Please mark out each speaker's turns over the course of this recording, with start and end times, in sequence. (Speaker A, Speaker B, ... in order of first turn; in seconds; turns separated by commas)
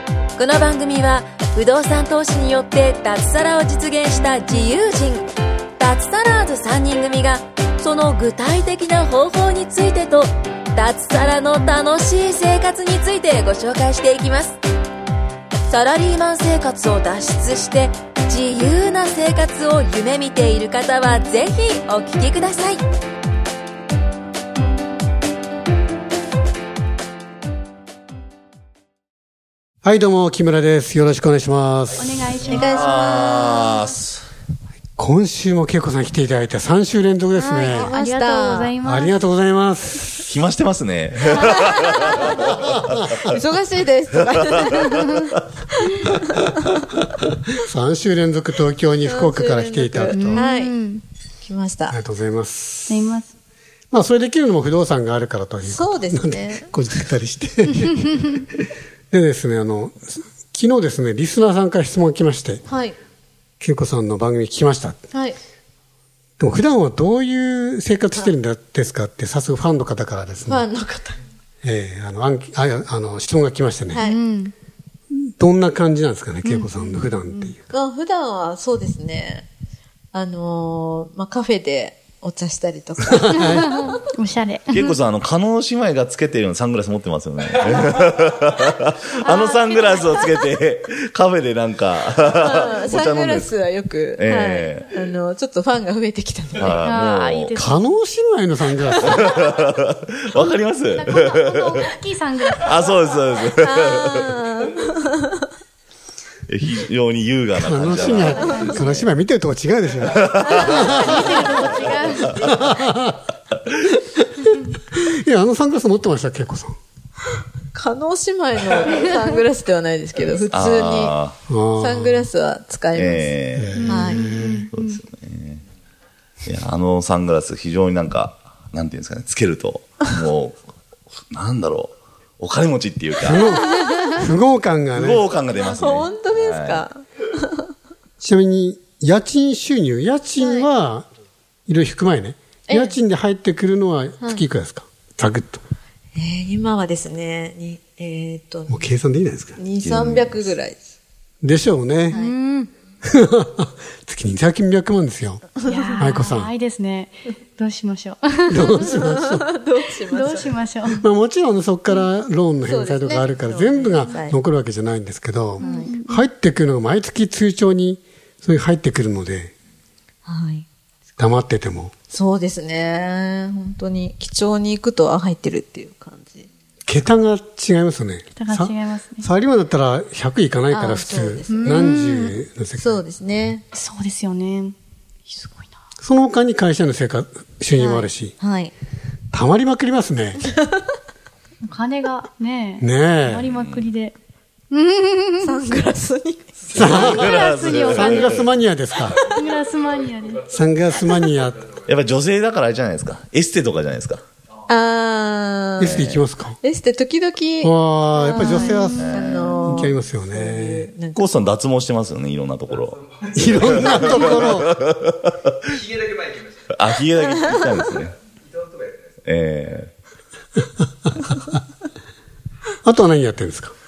Speaker A: 0.3-14.6, Speaker A: 15.7-22.8, Speaker B: 29.8-32.5, Speaker C: 31.9-33.0, Speaker D: 32.5-33.9, Speaker E: 32.5-34.2, Speaker B: 35.0-37.9, Speaker D: 37.4-38.7, Speaker C: 37.6-39.2, Speaker B: 38.8-40.3, Speaker E: 40.2-42.8, Speaker D: 41.8-42.5, Speaker B: 42.4-43.4, Speaker D: 43.2-46.6, Speaker E: 44.7-45.2, Speaker B: 47.6-50.5, Speaker D: 49.0-50.7, Speaker C: 50.1-51.0, Speaker D: 51.4-52.0, Speaker B: 51.9-53.2, Speaker C: 52.9-53.3, Speaker B: 53.9-58.4, Speaker D: 55.6-56.7, Speaker B: 59.1-62.6, Speaker D: 62.6-63.0, Speaker B: 63.6-65.0, Speaker D: 65.1-65.4, Speaker B: 66.4-70.6, Speaker D: 70.4-71.2, Speaker B: 71.6-74.0, Speaker D: 73.9-74.2, Speaker C: 74.0-74.5, Speaker B: 75.1-77.7, Speaker C: 76.4-77.5, Speaker D: 77.7-79.5, Speaker D: 80.1-84.0, Speaker B: 83.3-83.8, Speaker C: 83.4-85.0, Speaker E: 84.7-93.5, Speaker C: 89.2-90.3, Speaker D: 92.3-96.8, Speaker E: 94.2-94.9, Speaker E: 96.6-97.6, Speaker C: 96.8-98.0, Speaker B: 97.5-99.2, Speaker E: 99.0-101.8, Speaker C: 100.9-102.9, Speaker E: 102.6-104.3, Speaker D: 103.6-105.4, Speaker E: 106.5-109.1, Speaker B: 107.6-111.6, Speaker C: 107.9-109.0, Speaker E: 110.3-111.5, Speaker C: 110.6-112.5, Speaker B: 112.3-113.2, Speaker B: 114.1-114.4, Speaker B: 114.9-116.8, Speaker D: 117.7-121.1, Speaker E: 120.5-121.3, Speaker B: 121.5-122.3, Speaker D: 121.7-124.2, Speaker E: 122.9-124.0, Speaker B: 123.5-124.7, Speaker C: 123.8-125.0, Speaker E: 124.7-125.6, Speaker E: 126.4-130.6, Speaker E: 131.1-133.4, Speaker B: 133.2-135.2, Speaker D: 133.4-134.3, Speaker E: 134.9-136.8, Speaker D: 135.5-137.7, Speaker B: 138.2-141.1, Speaker D: 140.4-140.7, Speaker B: 141.7-145.6, Speaker D: 142.7-143.0, Speaker D: 146.1-148.9, Speaker B: 148.7-149.6, Speaker D: 149.6-150.8, Speaker E: 149.8-150.5, Speaker B: 151.4-152.2, Speaker C: 152.1-152.7, Speaker B: 153.0-156.5, Speaker D: 155.6-156.2, Speaker C: 155.7-159.1, Speaker B: 158.5-159.4, Speaker D: 158.7-160.5, Speaker C: 160.0-161.1, Speaker B: 161.0-169.5, Speaker D: 162.7-164.4, Speaker C: 165.6-166.2, Speaker D: 165.6-165.9, Speaker D: 170.2-170.7, Speaker B: 171.2-171.9, Speaker D: 172.1-176.5, Speaker B: 176.9-183.0, Speaker C: 178.3-179.2, Speaker D: 180.7-183.6, Speaker C: 181.5-182.3, Speaker C: 183.7-184.8, Speaker C: 185.3-185.7, Speaker B: 186.0-188.3, Speaker D: 187.7-188.7, Speaker B: 189.3-190.4, Speaker D: 190.4-190.8, Speaker C: 191.6-194.1, Speaker B: 192.8-193.5, Speaker E: 193.5-193.9, Speaker C: 194.7-195.6, Speaker D: 195.4-197.0, Speaker B: 196.7-199.3, Speaker E: 196.7-198.4, Speaker C: 197.0-198.5, Speaker C: 199.1-200.5, Speaker B: 200.5-201.7, Speaker E: 201.8-204.2, Speaker D: 204.7-211.3, Speaker B: 205.8-206.6, Speaker B: 207.6-210.9, Speaker C: 208.3-209.4, Speaker E: 209.0-209.6, Speaker E: 211.1-215.6, Speaker B: 213.3-214.8, Speaker E: 216.7-218.2, Speaker E: 219.2-219.9, Speaker B: 222.8-223.7